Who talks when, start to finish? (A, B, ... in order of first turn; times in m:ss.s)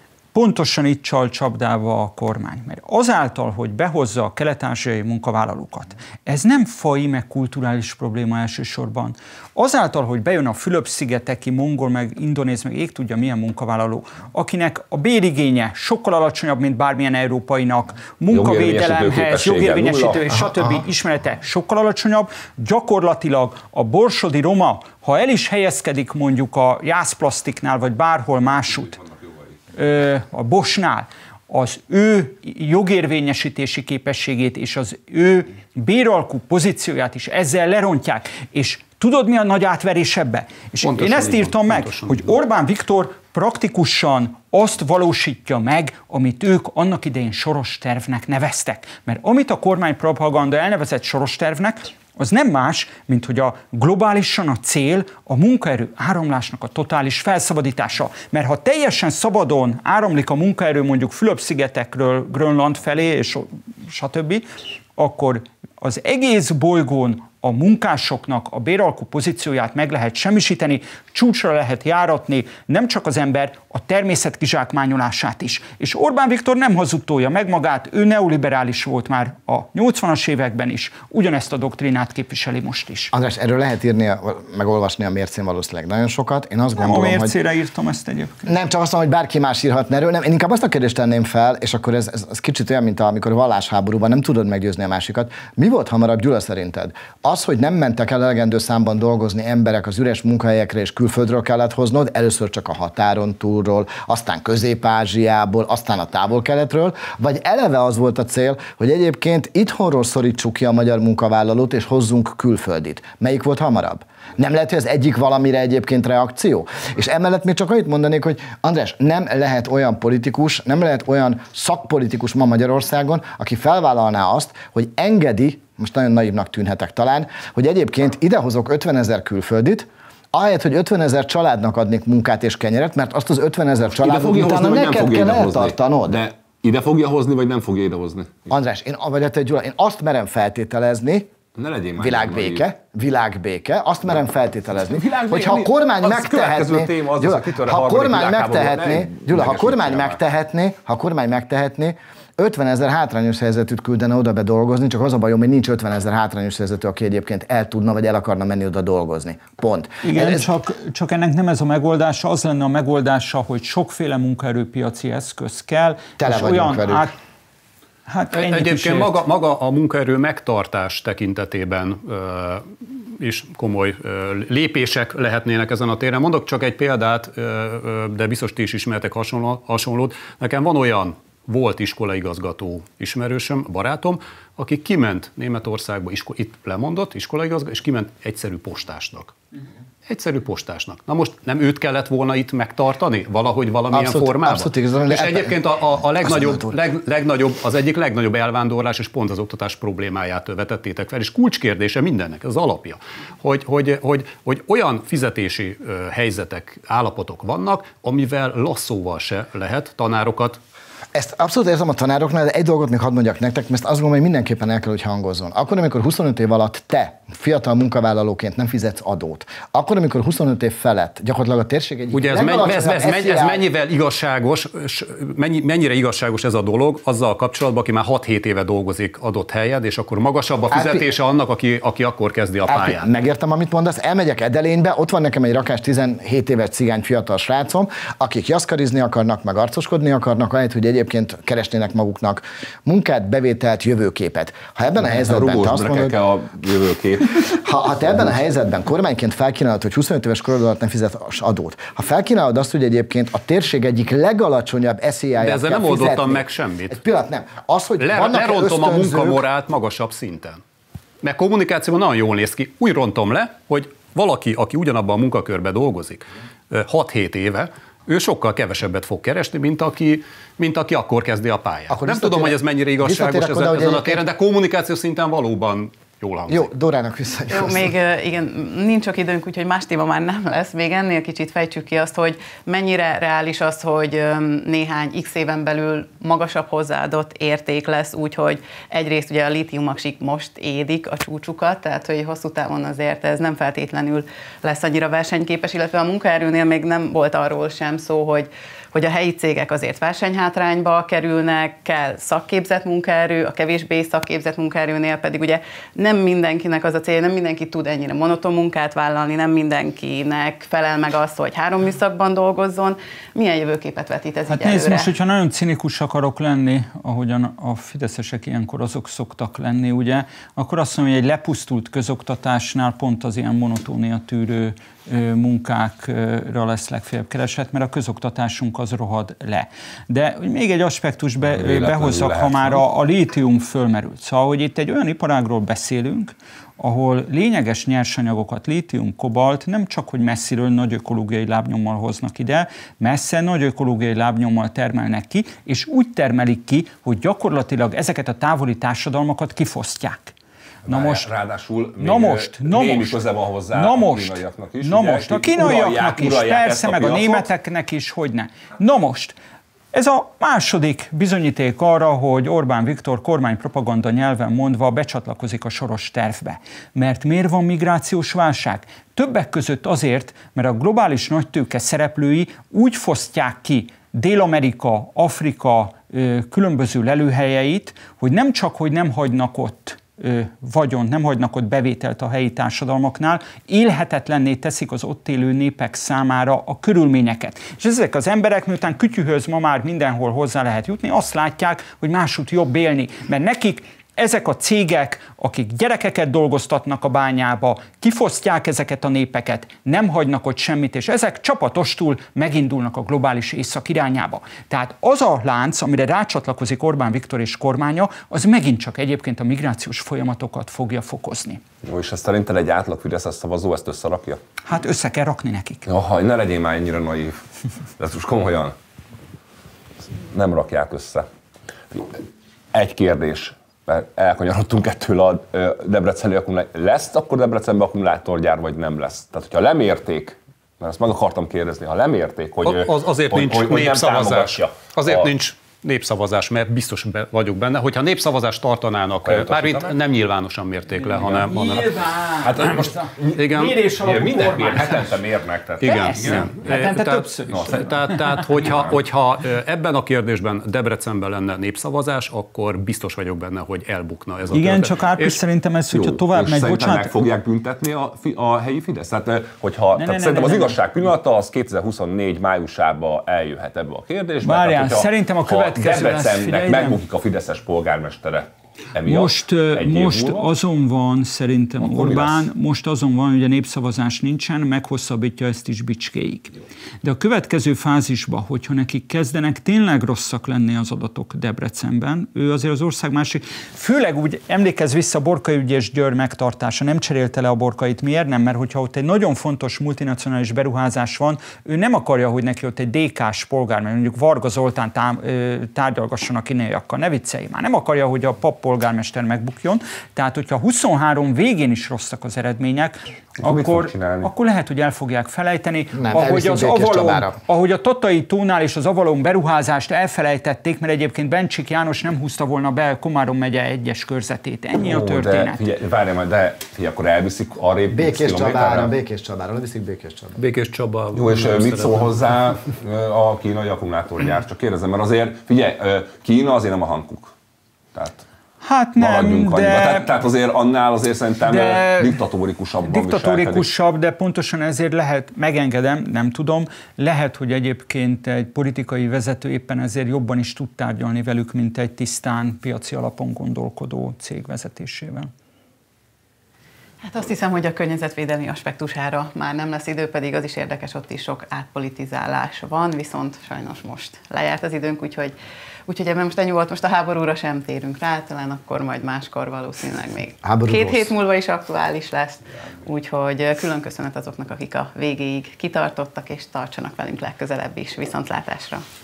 0:00.3-0:29.0 A
0:18.3-0:20.5 B
0:29.7-1:23.1 A
0:40.8-0:42.4 C
1:23.1-1:27.4 D
1:26.8-1:28.5 A
1:28.5-2:16.2 D
2:13.9-2:18.4 B
2:18.5-2:21.3 D
2:21.6-2:22.7 B
2:22.0-2:40.5 D
2:24.8-2:30.2 B
2:40.0-2:47.1 A
2:46.2-2:47.1 D
2:48.1-2:49.1 A
2:48.3-3:09.4 C
3:10.1-3:30.6 C
3:13.9-3:15.6 D
3:16.2-3:16.8 D
3:31.2-3:43.6 D
3:42.1-3:53.1 C
3:50.7-3:51.0 D
3:52.7-4:06.2 D
4:05.0-4:07.6 B
4:07.4-4:19.4 D
4:15.4-4:17.0 C
4:18.0-4:20.6 C
4:21.2-4:36.7 C
4:31.9-4:34.2 D
4:36.5-4:37.9 D
4:37.5-5:15.1 E
5:14.5-5:50.3 A
5:31.4-5:32.8 B
5:50.8-5:57.5 B
5:50.9-5:51.3 A
5:52.0-5:59.4 A
5:59.9-6:51.6 A
6:51.8-6:54.4 B
6:54.7-6:55.9 A
6:55.9-6:57.4 B
6:58.0-6:58.7 B
7:00.2-7:01.3 B
7:01.9-7:02.2 B
7:02.7-7:15.3 B
7:12.6-7:21.9 C
7:19.2-7:19.9 B
7:21.0-7:25.2 A
7:21.2-7:21.5 B
7:22.4-7:26.9 B
7:23.4-7:23.8 C
7:25.8-7:28.7 A
7:25.8-7:35.4 C
7:27.5-7:29.0 B
7:34.5-7:37.1 A
7:35.9-7:50.5 B
7:40.0-7:40.8 A
7:44.4-7:47.0 A
7:49.0-8:35.6 A
7:51.8-7:52.5 B
8:23.4-8:24.3 B
8:25.9-8:27.4 D
8:34.8-8:38.9 B
8:37.9-8:40.4 D
8:40.4-8:42.2 C
8:41.1-8:47.3 B
8:48.0-8:48.2 B
8:48.6-8:50.1 A
8:49.0-8:53.7 B
8:51.5-8:52.2 A
8:52.8-9:05.3 A
9:07.0-9:15.3 E
9:15.9-9:28.8 E
9:20.4-9:21.2 D